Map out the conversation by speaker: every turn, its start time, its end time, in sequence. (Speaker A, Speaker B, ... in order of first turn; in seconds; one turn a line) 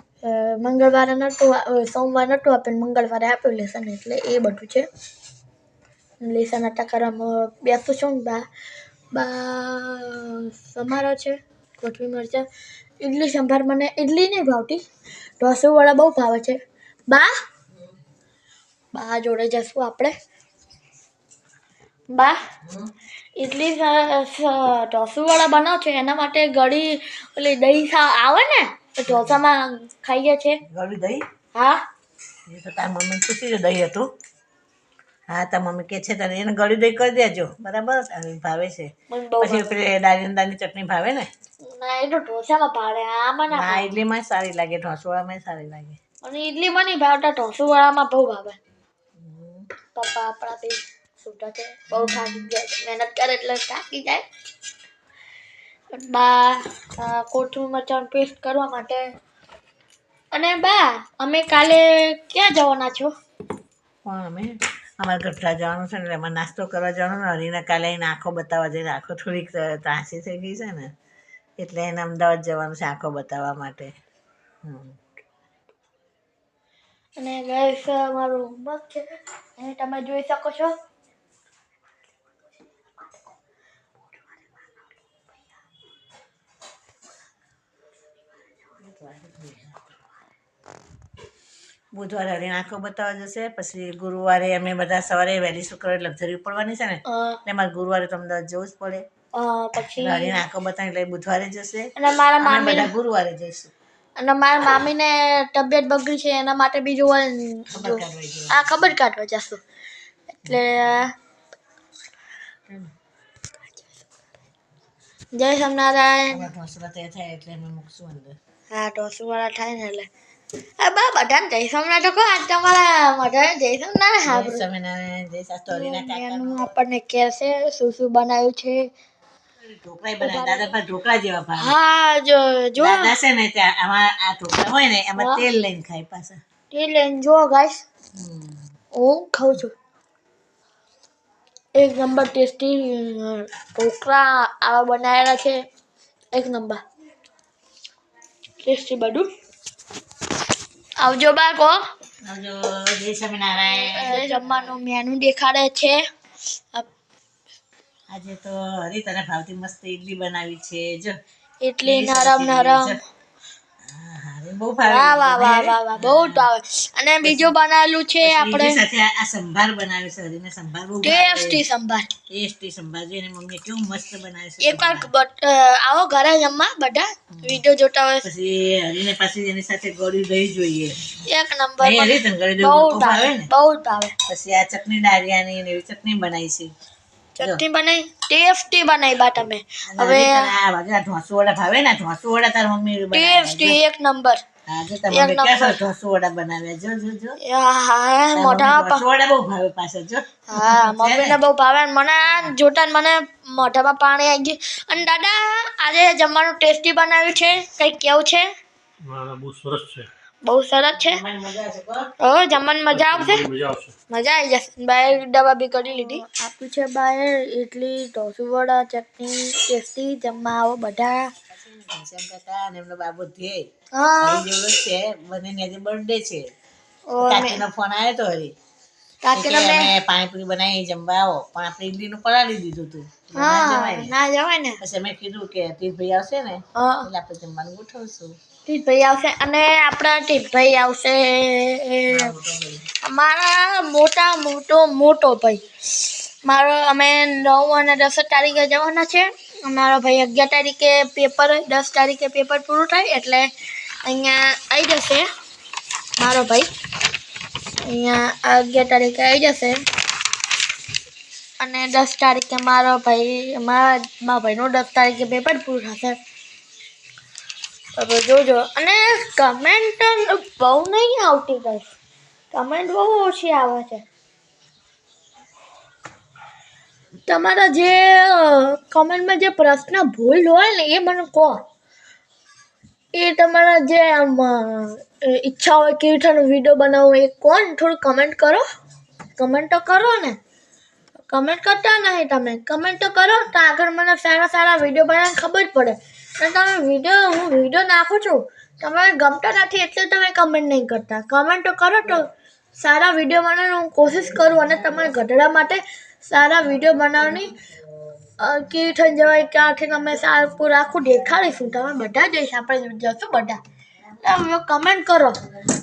Speaker A: 0.2-4.9
Speaker A: 6.2-8.4
Speaker A: 9.1-12.4
Speaker A: 13.0-14.8
Speaker A: 15.4-17.3
Speaker A: 18.9-20.1
Speaker A: 22.1-22.4
Speaker A: 23.4-30.6
Speaker B: 29.1-29.4
Speaker B: 30.7-31.2
Speaker A: 31.5-31.8
Speaker B: 32.5-34.1
Speaker B: 35.3-41.3
Speaker A: 39.1-39.7
Speaker A: 41.6-43.9
Speaker B: 43.5-46.0
Speaker A: 46.2-48.6
Speaker B: 49.2-49.7
Speaker A: 49.9-54.2
Speaker B: 51.9-52.3
Speaker A: 55.9-59.0
Speaker A: 60.3-63.1
Speaker B: 64.0-70.9
Speaker B: 71.6-73.9
Speaker B: 74.6-75.0
Speaker A: 77.2-80.7
Speaker B: 88.8-89.9
Speaker B: 91.9-99.0
Speaker A: 97.0-97.4
Speaker A: 99.3-100.4
Speaker B: 99.8-103.7
Speaker A: 102.0-102.9
Speaker A: 104.2-109.6
Speaker B: 107.7-108.6
Speaker A: 110.3-111.1
Speaker A: 115.3-116.5
Speaker B: 116.3-118.4
Speaker A: 118.7-120.1
Speaker A: 120.8-124.6
Speaker B: 124.2-126.7
Speaker A: 125.7-128.9
Speaker B: 129.6-131.7
Speaker A: 130.2-130.7
Speaker A: 131.6-133.1
Speaker B: 132.8-136.4
Speaker A: 135.2-135.4
Speaker A: 136.7-137.8
Speaker B: 138.1-138.6
Speaker A: 138.9-139.7
Speaker A: 141.7-145.6
Speaker A: 146.3-146.8
Speaker A: 148.6-149.3
Speaker A: 151.0-151.8
Speaker B: 152.2-154.5
Speaker A: 153.9-156.0
Speaker B: 158.1-161.1
Speaker A: 161.6-163.0
Speaker B: 161.8-163.0
Speaker B: 163.9-166.5
Speaker A: 164.8-168.8
Speaker B: 167.2-167.5
Speaker B: 168.2-171.6
Speaker A: 171.0-172.1
Speaker B: 172.3-175.1
Speaker A: 174.6-178.3
Speaker B: 177.3-177.6
Speaker B: 178.2-181.1
Speaker A: 181.2-184.1
Speaker B: 181.8-183.5
Speaker B: 184.3-186.7
Speaker A: 187.4-190.5
Speaker B: 189.8-193.8
Speaker A: 193.1-194.4
Speaker B: 194.7-197.4
Speaker A: 195.1-195.8
Speaker A: 197.4-199.0
Speaker B: 198.3-201.4
Speaker A: 200.5-208.5
Speaker C: 209.0-210.1
Speaker A: 210.4-211.2
Speaker B: 210.9-212.1
Speaker A: 212.2-213.4
Speaker C: 212.9-213.9
Speaker A: 214.1-221.3
Speaker B: 221.5-223.7
Speaker A: 223.9-224.4
Speaker B: 224.2-226.5
Speaker A: 227.1-227.6
Speaker B: 227.2-228.5
Speaker A: 229.2-229.9
Speaker B: 229.3-234.1
Speaker A: 233.3-234.8
Speaker B: 234.8-238.3
Speaker A: 236.8-237.1
Speaker A: 238.7-242.3
Speaker B: 242.1-242.9
Speaker A: 243.0-253.5
Speaker A: 254.0-255.3
Speaker A: 256.2-256.7
Speaker A: 257.8-259.8
Speaker A: 261.6-266.2
Speaker A: 267.9-271.9
Speaker A: 272.5-274.0
Speaker A: 277.3-281.6
Speaker A: 283.1-288.6
Speaker A: 289.4-290.4
Speaker A: 291.3-307.5
Speaker A: 308.4-313.6
Speaker A: 314.2-315.4